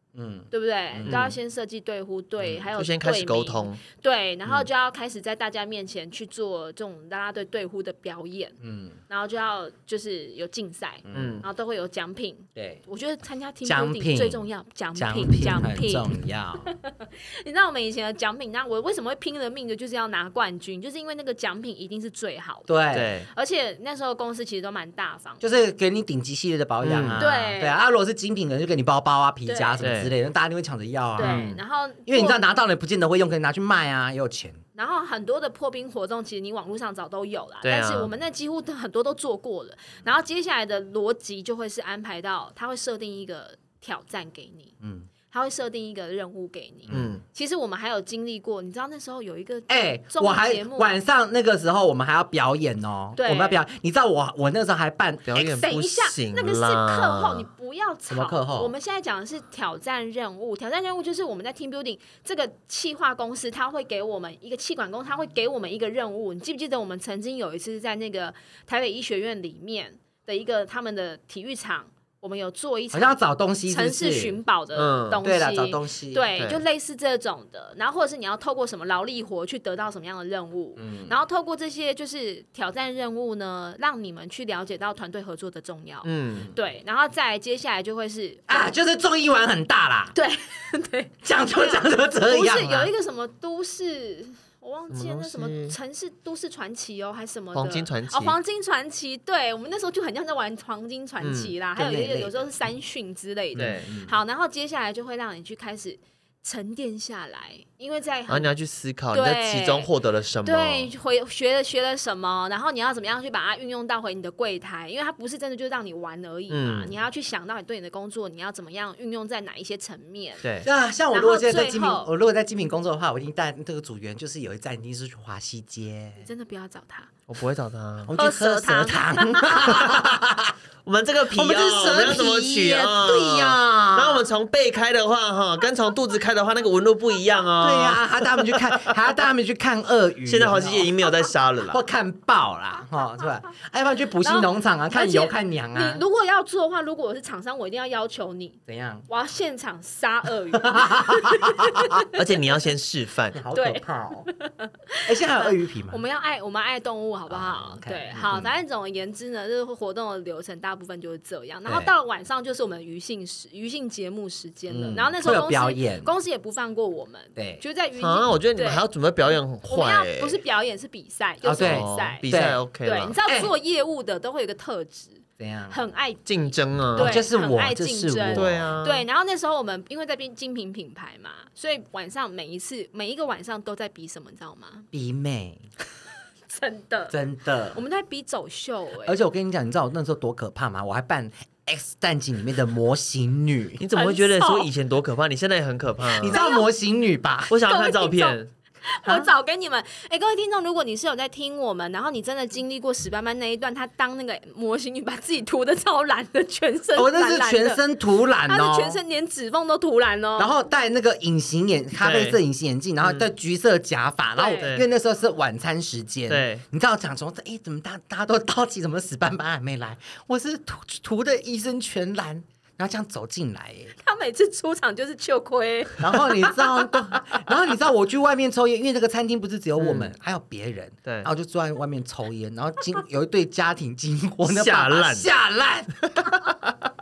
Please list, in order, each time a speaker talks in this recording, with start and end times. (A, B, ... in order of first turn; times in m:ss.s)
0:00.1-0:01.2 A
0:00.5-0:08.6 B
0:01.0-0:01.4 C
0:02.6-0:03.8 C
0:08.6-0:09.0 A
0:09.1-0:16.1 B
0:11.0-0:11.4 A
0:11.1-0:11.4 C
0:12.6-0:12.8 A
0:13.6-0:16.7 A
0:16.7-0:22.7 B
0:22.7-0:23.1 A
0:22.9-0:23.3 C
0:23.3-0:25.4 B
0:25.4-0:31.5 A
0:26.8-0:27.2 C
0:27.2-0:27.8 B
0:29.4-0:29.8 B
0:29.8-0:30.1 C
0:31.2-0:32.4 B
0:31.2-0:31.6 C
0:32.0-0:34.6 A
0:34.7-0:44.7 B
0:37.6-0:38.1 C
0:44.8-0:45.1 A
0:45.3-0:51.0 B
0:46.9-0:47.2 A
0:46.9-0:47.2 C
0:49.7-0:55.6 A
0:53.2-0:53.6 B
0:55.3-0:57.5 C
0:55.4-1:28.7 B
0:58.1-0:58.7 A
1:12.9-1:14.4 A
1:14.7-1:15.2 C
1:15.2-1:16.3 A
1:20.8-1:21.1 A
1:26.0-1:26.5 C
1:28.5-1:30.1 A
1:30.1-1:48.5 B
1:31.2-1:32.8 A
1:34.9-1:35.7 C
1:37.5-1:38.4 C
1:41.2-1:41.5 C
1:41.8-1:42.5 A
1:43.5-1:44.2 A
1:43.6-1:43.8 C
1:48.3-1:50.9 C
1:49.1-1:49.9 B
1:50.4-2:00.5 B
1:56.5-1:56.9 C
2:00.4-2:00.7 C
2:00.6-2:06.3 A
2:01.1-2:02.1 B
2:06.2-2:07.1 B
2:07.3-2:08.1 C
2:08.0-2:10.5 A
2:08.2-2:09.9 B
2:09.7-2:10.1 C
2:10.8-2:18.9 C
2:11.3-2:14.3 A
2:17.6-2:20.9 A
2:20.2-2:21.8 C
2:21.7-2:26.0 A
2:24.2-2:32.1 B
2:28.7-2:29.1 A
2:30.5-2:31.9 A
2:32.1-2:33.4 C
2:33.3-2:34.3 A
2:33.5-2:48.8 B
2:35.0-2:36.0 A
2:37.3-2:38.5 A
2:44.7-2:46.1 A
2:47.4-2:47.6 A
2:48.0-2:50.4 C
2:49.7-2:52.3 B
2:51.4-2:52.6 A
2:51.6-2:53.2 C
2:52.8-3:04.9 B
2:53.2-2:53.5 A
2:55.4-2:55.8 A
2:56.3-2:57.2 C
2:57.0-2:58.7 A
2:58.3-2:59.0 C
3:04.9-3:05.6 A
3:06.5-3:07.2 B
3:07.1-3:07.8 A
3:07.7-3:09.2 B
3:09.0-3:13.8 A
3:13.8-3:16.4 C
3:13.9-3:14.7 B
3:16.2-3:17.6 A
3:16.2-3:16.7 B
3:17.5-3:18.5 C
3:17.6-3:27.8 B
3:26.9-3:29.0 A
3:28.4-3:30.5 B
3:30.4-3:43.9 A
3:32.0-3:32.4 C
3:33.0-3:33.3 C
3:34.4-3:34.7 B
3:36.3-3:36.6 C
3:44.0-3:47.2 B
3:46.0-3:56.5 A
3:49.8-3:50.1 C
3:54.4-3:55.3 C